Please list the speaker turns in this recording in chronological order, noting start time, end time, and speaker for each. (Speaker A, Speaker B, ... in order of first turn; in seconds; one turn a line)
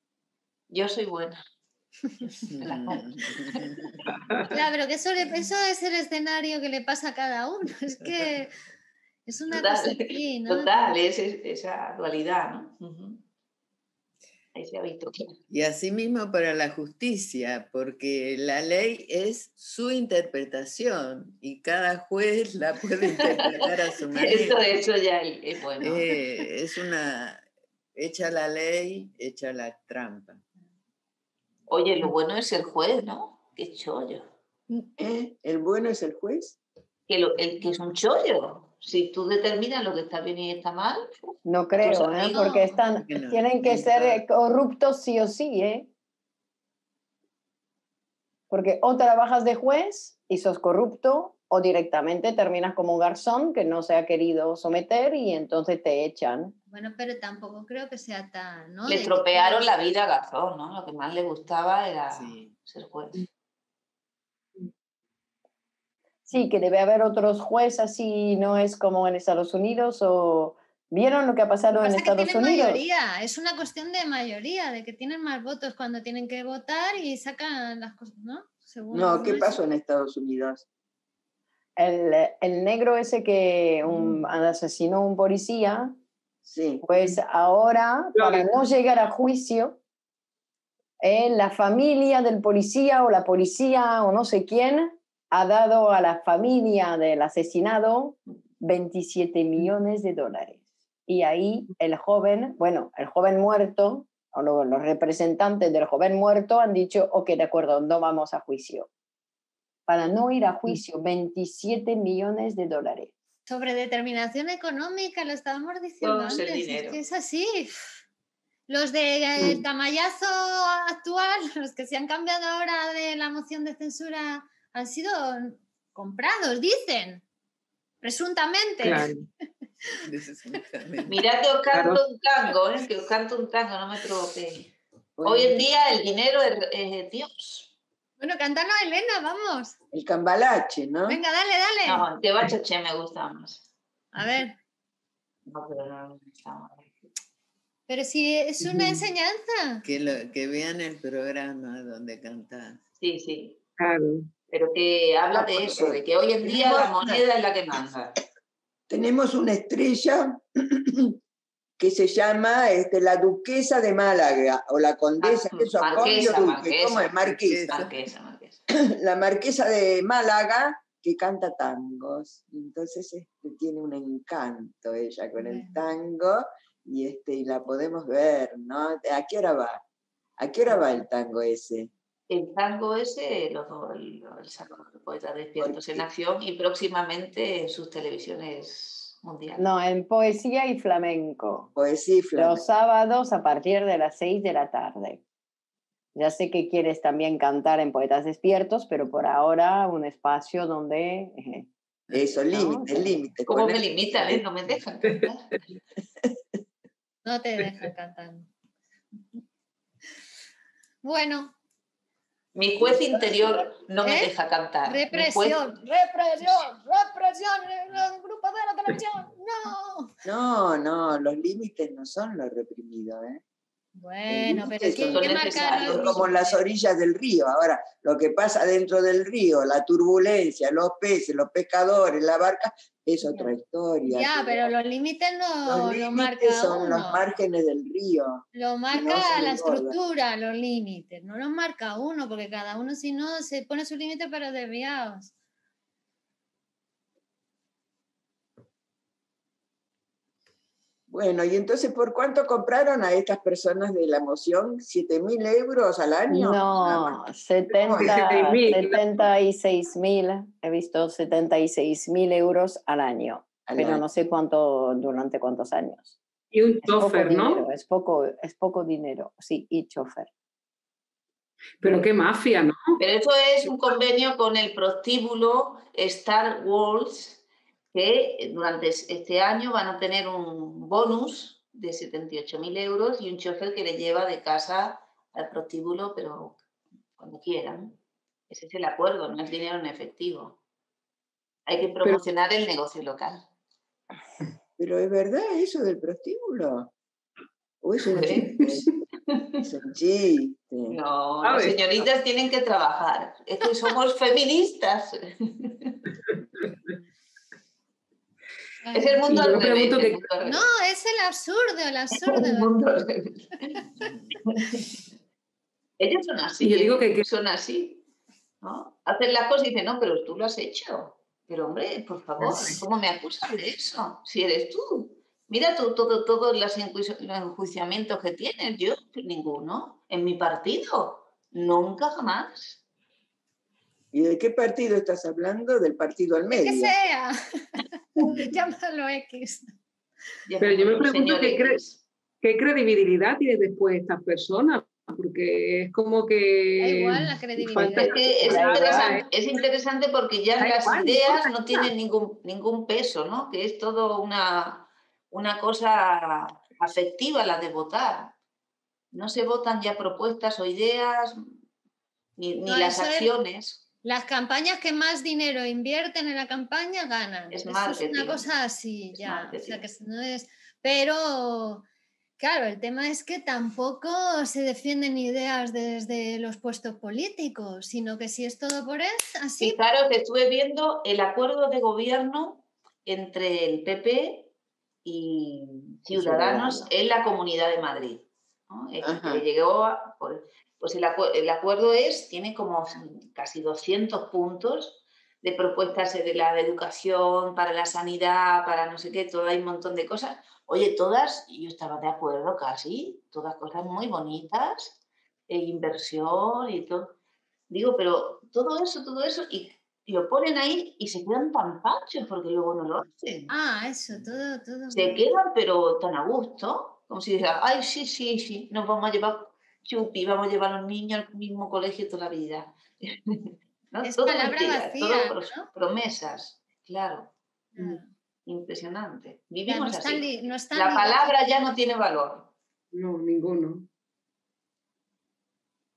Speaker A: 0.7-1.4
Speaker B: 2.5-3.9
Speaker A: 2.7-3.0
Speaker C: 4.5-8.5
Speaker C: 9.2-11.0
Speaker A: 9.5-13.2
Speaker A: 14.5-15.3
Speaker B: 15.5-24.7
Speaker A: 23.5-26.1
Speaker B: 25.8-30.4
Speaker A: 31.7-34.2
Speaker D: 35.0-36.6
Speaker A: 37.1-42.6
Speaker E: 41.4-45.9
Speaker C: 42.3-42.7
Speaker B: 42.9-44.2
Speaker E: 48.5-56.5
Speaker C: 56.7-59.7
Speaker A: 58.9-63.2
Speaker B: 62.1-62.5
Speaker E: 66.3-72.8
Speaker C: 71.8-79.6
Speaker D: 78.9-80.6
Speaker E: 81.8-85.9
Speaker D: 86.4-86.8
Speaker E: 86.8-89.8
Speaker F: 88.2-88.5
Speaker E: 91.0-108.9
Speaker E: 109.9-113.1
Speaker C: 113.5-117.9
Speaker A: 116.0-117.0
Speaker C: 118.7-127.2
Speaker F: 119.4-119.6
Speaker C: 128.0-129.1
Speaker F: 128.8-129.2
Speaker B: 130.0-131.2
Speaker A: 131.1-134.7
Speaker F: 131.7-132.0
Speaker D: 135.2-135.7
Speaker A: 135.2-137.7
Speaker C: 138.2-139.7
Speaker D: 139.9-141.2
Speaker C: 141.1-142.1
Speaker A: 141.8-143.7
Speaker C: 144.1-144.6
Speaker A: 145.5-146.8
Speaker C: 147.9-149.8
Speaker B: 149.8-152.8
Speaker A: 153.0-153.6
Speaker F: 153.8-154.3
Speaker A: 154.5-158.1
Speaker D: 155.3-157.2
Speaker D: 158.9-161.1
Speaker D: 161.8-167.7
Speaker A: 165.2-167.1
Speaker B: 167.2-167.9
Speaker A: 167.7-168.6
Speaker D: 168.7-179.8
Speaker C: 175.4-175.8
Speaker D: 180.4-181.9
Speaker A: 182.3-189.6
Speaker D: 185.6-186.0
Speaker E: 189.6-191.7
Speaker D: 191.8-192.6
Speaker E: 192.4-195.2
Speaker E: 196.1-201.7
Speaker D: 202.1-204.4
Speaker E: 202.5-203.1
Speaker A: 203.5-205.5
Speaker C: 207.2-208.5
Speaker C: 211.0-211.5
Speaker A: 212.5-215.6
Speaker D: 212.8-213.4
Speaker C: 214.0-214.3
Speaker C: 214.8-220.1
Speaker D: 220.2-223.4
Speaker C: 223.9-226.6
Speaker D: 224.3-234.7
Speaker A: 225.1-226.2
Speaker C: 234.1-237.2
Speaker D: 235.7-239.9
Speaker C: 238.5-245.3
Speaker D: 251.1-257.2
Speaker E: 256.3-266.2
Speaker D: 257.8-258.2
Speaker F: 257.8-259.2
Speaker D: 263.6-264.0
Speaker F: 266.5-267.6
Speaker E: 266.8-270.3
Speaker F: 271.8-273.0
Speaker A: 273.0-277.4
Speaker A: 277.9-286.6
Speaker A: 287.2-287.9
Speaker A: 288.5-290.6
Speaker A: 291.7-293.4
Speaker D: 294.8-296.9
Speaker D: 297.8-298.9
Speaker A: 298.1-298.4
Speaker F: 298.5-298.9
Speaker D: 299.6-301.0
Speaker A: 300.9-305.9
Speaker F: 301.4-301.9
Speaker C: 308.8-309.4
Speaker A: 308.9-310.7
Speaker F: 309.3-310.3
Speaker C: 310.4-312.7
Speaker A: 312.3-313.4
Speaker A: 314.5-314.8
Speaker A: 316.0-318.0
Speaker F: 316.6-317.2
Speaker A: 318.6-332.8
Speaker F: 322.4-322.8
Speaker D: 334.1-336.9
Speaker C: 336.6-339.7
Speaker A: 340.5-342.0
Speaker F: 340.6-341.8
Speaker F: 342.4-349.3
Speaker C: 346.8-349.2
Speaker A: 347.8-358.3
Speaker F: 350.6-351.9
Speaker A: 359.1-361.4
Speaker A: 362.4-363.8
Speaker C: 362.6-363.4
Speaker C: 364.0-371.8
Speaker A: 367.5-368.4
Speaker A: 369.1-369.8
Speaker C: 372.4-379.8
Speaker A: 379.6-384.5
Speaker A: 385.0-404.9
Speaker B: 386.1-386.9
Speaker A: 405.5-407.1
Speaker A: 407.7-413.5
Speaker C: 413.5-415.4
Speaker A: 414.9-432.5
Speaker C: 424.0-425.7
Speaker C: 427.8-428.1
Speaker C: 429.7-431.6
Speaker F: 432.9-433.9